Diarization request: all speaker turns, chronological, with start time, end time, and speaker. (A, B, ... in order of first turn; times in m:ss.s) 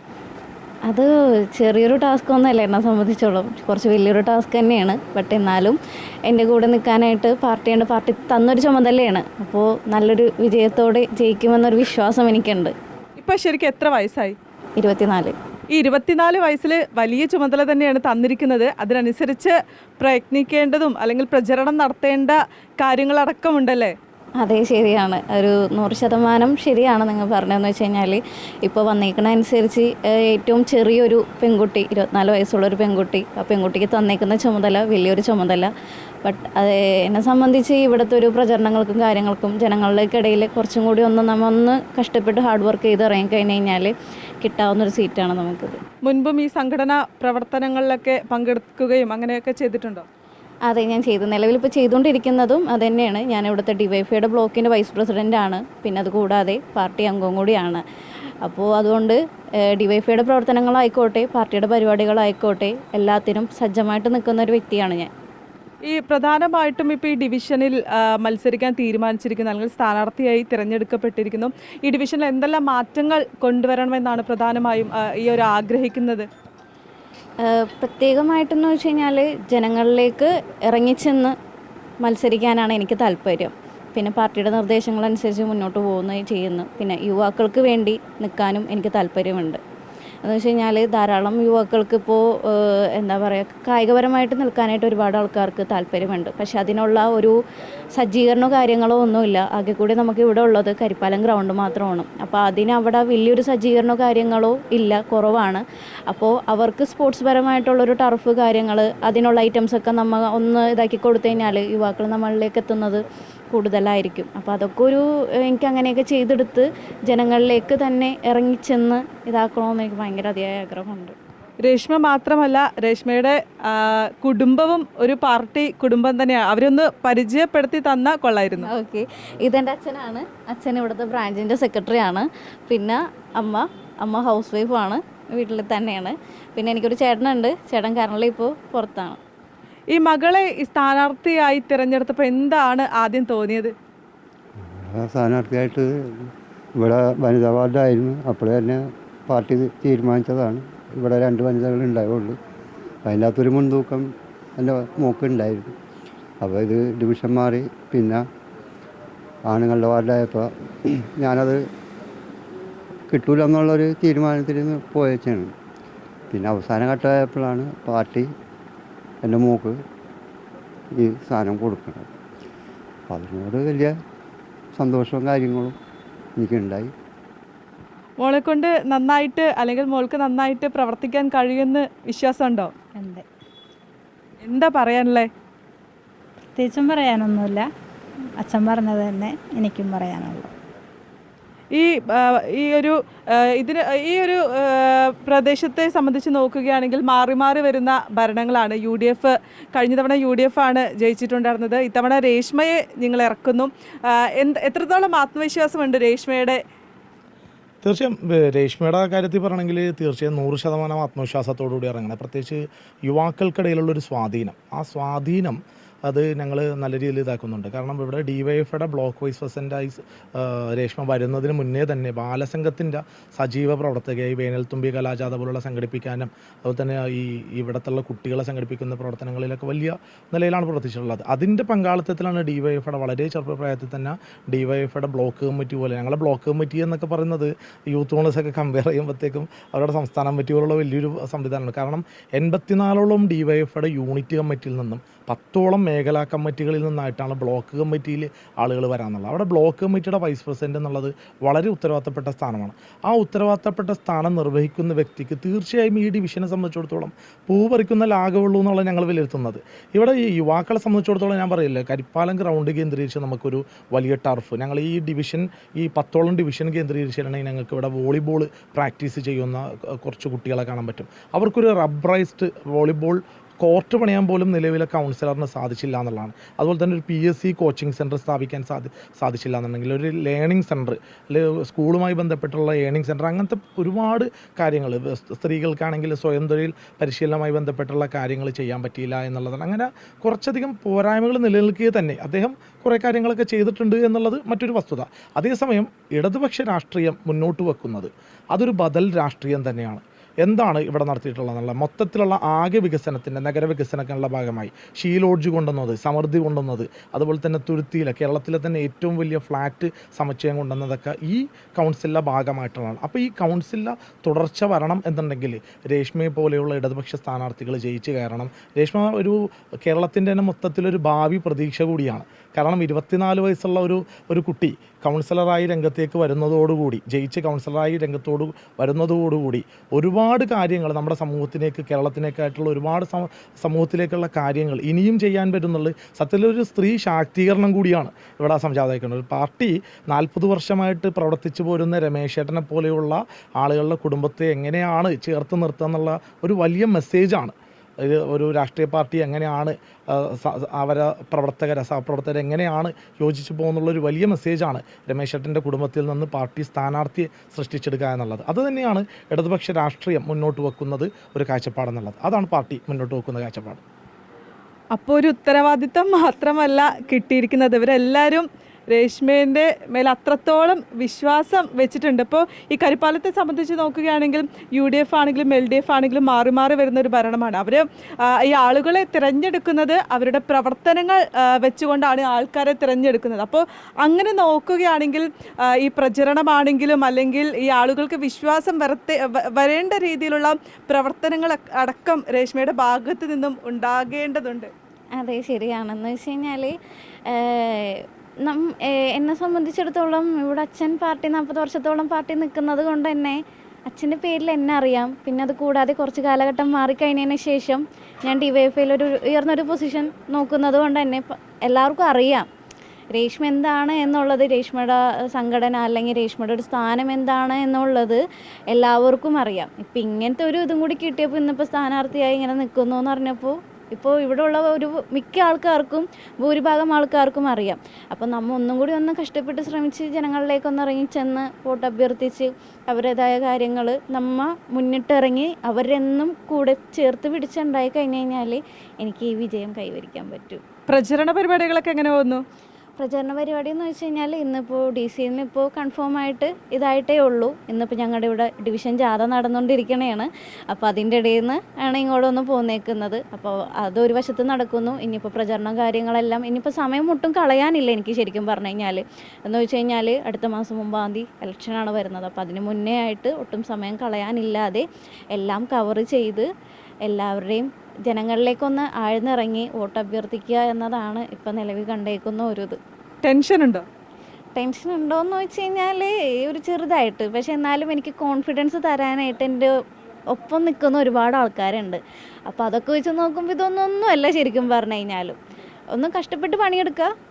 0:00.9-0:12.7 A
0:13.2-0:14.4 B
0:14.8-0:15.3 A
0:15.7-0:24.0 B
0:24.4-0:35.7 A
0:36.2-0:45.8 A
0:46.0-0:50.0 B
0:50.6-0:57.8 A
0:58.4-1:05.1 A
1:05.8-1:16.3 B
1:17.4-1:21.3 A
1:22.0-1:29.6 A
1:30.2-1:37.3 A
1:37.9-2:01.2 A
2:01.6-2:08.7 B
2:08.6-2:19.2 A
2:19.9-2:23.7 B
2:24.6-2:32.3 C
2:33.0-2:34.0 C
2:34.6-2:35.7 C
2:36.4-2:38.2 C
2:39.5-2:40.5 C
2:41.2-2:41.6 C
2:43.1-2:45.5 C
2:46.3-2:48.3 C
2:49.2-2:49.8 C
2:51.0-2:52.1 C
2:53.1-2:53.9 C
2:54.8-2:55.8 C
2:56.4-2:56.9 C
2:58.2-3:02.7 B
3:02.9-3:03.2 D
3:04.4-3:05.3 B
3:06.6-3:07.7 D
3:08.4-3:10.5 D
3:11.7-3:26.6 B
3:27.8-6:03.8 E
6:04.9-6:34.7 B
6:35.2-6:36.8 A
6:37.3-6:52.4 A
6:53.1-6:58.2 A
6:58.7-7:20.6 A
7:20.9-7:22.4 B
7:23.0-7:46.4 A
7:47.1-7:52.8 A
7:53.2-7:53.8 B
7:54.6-7:59.7 A
8:00.3-8:05.4 A
8:05.9-8:07.1 A